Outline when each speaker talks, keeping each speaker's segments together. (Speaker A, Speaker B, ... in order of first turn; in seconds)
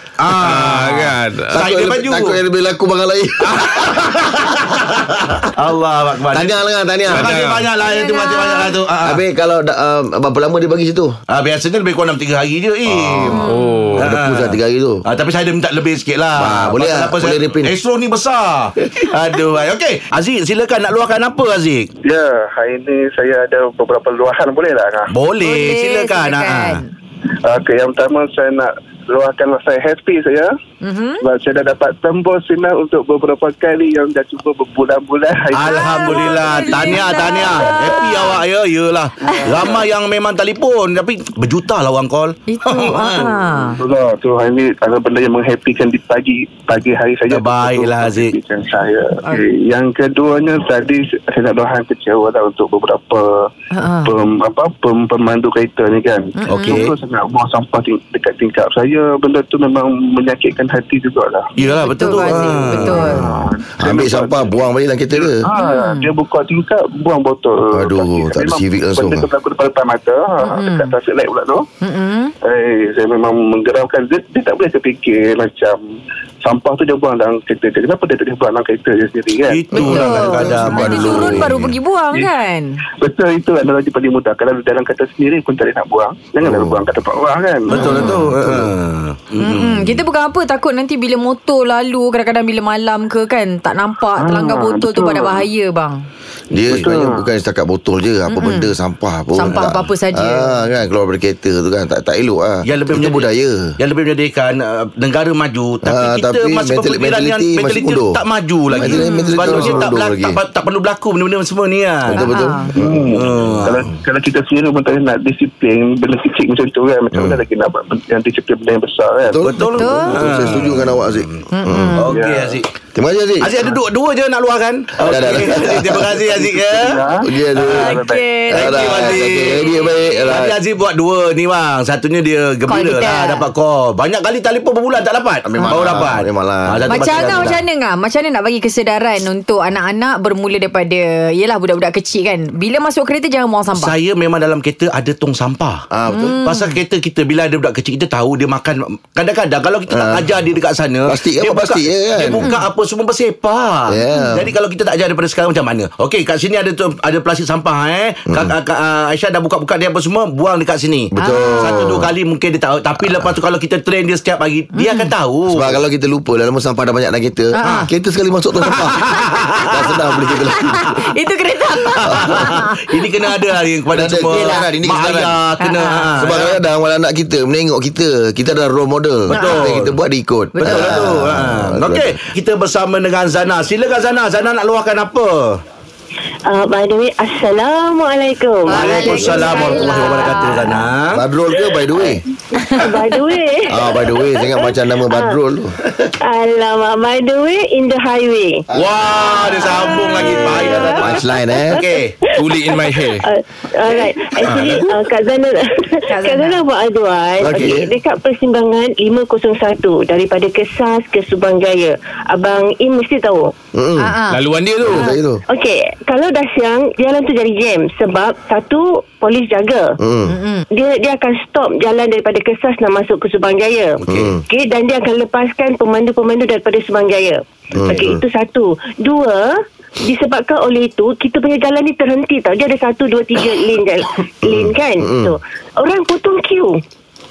Speaker A: 0.2-2.4, 3.5-6.5, 7.1-9.2, 11.3-13.4, 14.0-21.9, 25.1-26.8, 35.5-43.4, 47.3-48.3, 56.5-57.0, 61.5-63.0, 79.5-81.5, 87.7-90.0, 102.6-112.3, 112.8-113.8, 119.4-121.4, 122.0-122.7, 123.4-127.0, 127.6-129.7, 130.3-137.6, 143.7-145.8, 146.4-165.8, 168.6-169.9, 171.7-176.6, 179.3-179.9, 180.6-185.6, 188.7-191.2, 198.7-202.1, 204.4-204.9, 224.0-224.3
Speaker B: 0.3-1.5, 7.1-7.6, 13.4-14.0, 202.3-203.2, 214.3-215.1
Speaker C: 1.5-3.9, 6.3-7.3, 9.0-11.1, 12.9-13.4, 14.0-15.0, 16.4-17.7, 62.8-65.5, 67.7-69.3, 79.7-81.8, 86.4-86.8, 87.8-88.7, 96.5-103.8, 105.8-108.2, 108.7-110.4, 112.1-113.0, 117.1-117.4, 119.3-122.0, 122.9-123.7, 125.0-126.2, 127.2-130.6, 135.4-137.5, 145.9-146.4, 149.9-150.3, 151.1-152.5, 153.9-154.5, 161.1-162.1, 165.5-169.1, 169.7-170.9, 172.1-172.4, 173.9-175.3, 176.2-182.2, 191.1-192.2, 193.7-195.8, 200.2-201.8, 207.4-207.9, 213.7-214.2, 214.8-215.4, 220.0-220.3, 224.1-224.4, 227.7-228.2, 234.5-235.4
Speaker D: 7.8-8.7, 13.3-13.9, 25.4-26.9, 30.8-31.2, 35.6-38.4, 39.2-39.7, 42.5-43.8, 53.7-54.1, 56.4-56.8, 61.8-63.3, 65.5-66.1, 70.4-70.9, 71.8-72.3, 79.8-82.8, 87.7-88.2, 89.4-96.0, 98.3-98.7, 99.3-100.6, 108.9-109.8, 112.2-112.7, 119.7-120.2, 121.5-122.1, 127.7-130.4, 132.7-133.5, 136.9-143.9, 146.1-146.7, 161.2-161.8, 164.8-165.1, 167.5-167.9, 170.5-173.4, 174.3-174.7, 175.6-176.1, 179.3-179.8, 180.5-181.1, 188.7-190.8, 199.4-200.0, 206.1-206.6, 214.0-214.4, 220.3-220.7
Speaker E: 22.0-25.1, 27.4-30.5, 31.2-37.0, 43.8-53.5, 54.0-61.5, 62.2-64.5, 65.2-71.6, 72.4-79.6, 83.0-87.9, 94.2-95.4, 96.7-97.2, 112.7-119.4, 122.0-122.5, 126.3-128.3
Speaker F: 186.5-190.2, 192.7-195.3, 196.2-198.7, 199.4-201.0, 202.5-213.5, 214.9-219.9, 220.7-236.8